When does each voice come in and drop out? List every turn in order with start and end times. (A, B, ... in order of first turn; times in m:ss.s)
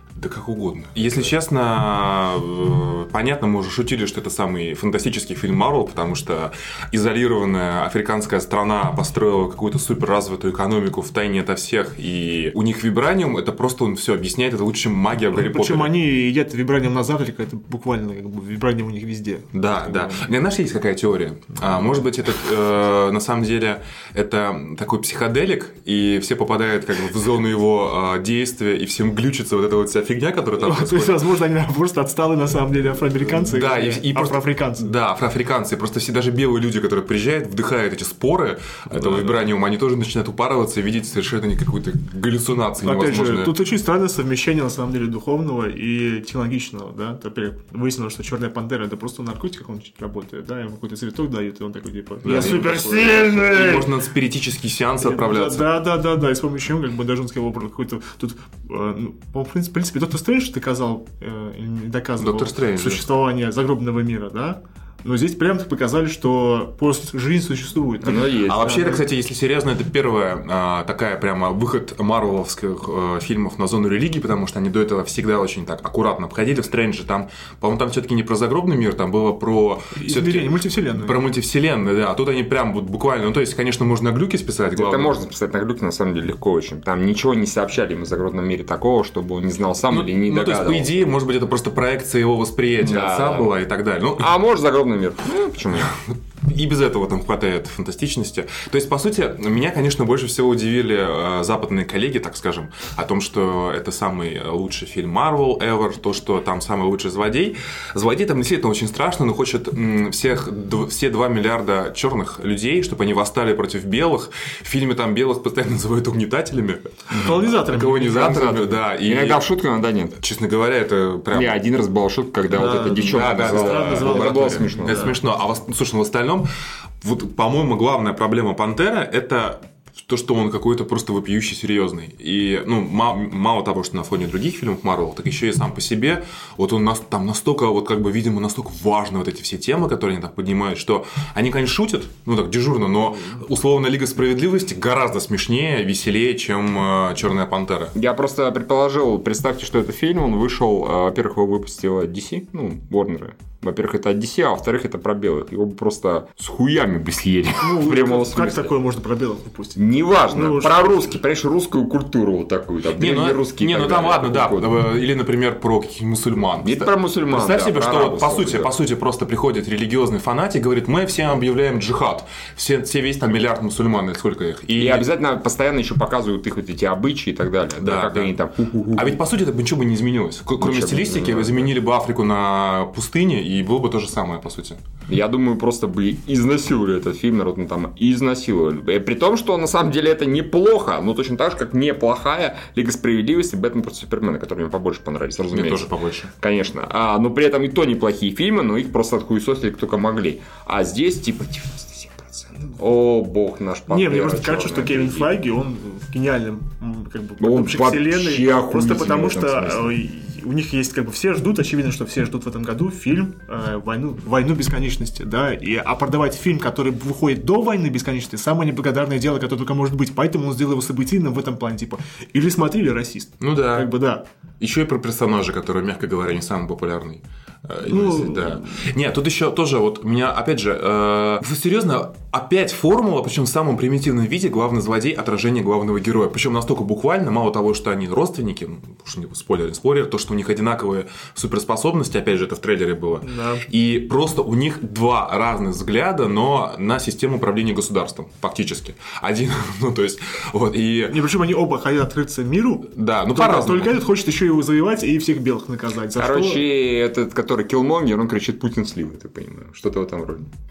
0:00.2-0:16.0 A
0:15.3-0:19.5 B
0:19.5-0:31.2 A
0:30.6-0:34.9 B
0:33.3-0:43.5 A
0:42.8-0:53.9 B
0:52.2-0:55.7 A
0:55.0-1:09.0 B
1:02.2-1:03.0 A
1:08.0-1:08.9 C
1:08.4-1:25.2 A
1:19.9-1:21.2 B
1:24.8-1:31.0 C
1:29.9-1:34.4 A
1:32.8-1:33.5 C
1:34.2-1:35.9 C
1:35.8-1:59.4 A
1:57.2-1:58.4 B
1:58.1-2:00.2 C
2:00.2-2:01.6 A
2:01.3-2:05.2 C
2:02.5-2:05.2 B
2:02.6-2:06.5 A
2:07.0-2:27.9 A
2:27.9-2:38.7 C
2:37.6-2:41.2 B
2:39.8-2:44.7 C
2:43.0-2:55.1 A
2:46.6-2:48.7 C
2:54.8-2:59.2 C
2:57.8-2:58.3 A
2:58.9-3:04.8 A
3:00.6-3:01.7 C
3:05.1-3:25.3 C
3:15.5-3:16.3 A
3:23.9-3:44.2 B
3:27.4-3:29.9 C
3:43.4-3:43.9 A
3:44.6-4:11.2 A
3:47.9-3:48.8 B
4:03.2-4:03.6 B
4:11.1-4:16.6 B
4:12.9-4:13.9 A
4:16.2-4:20.5 C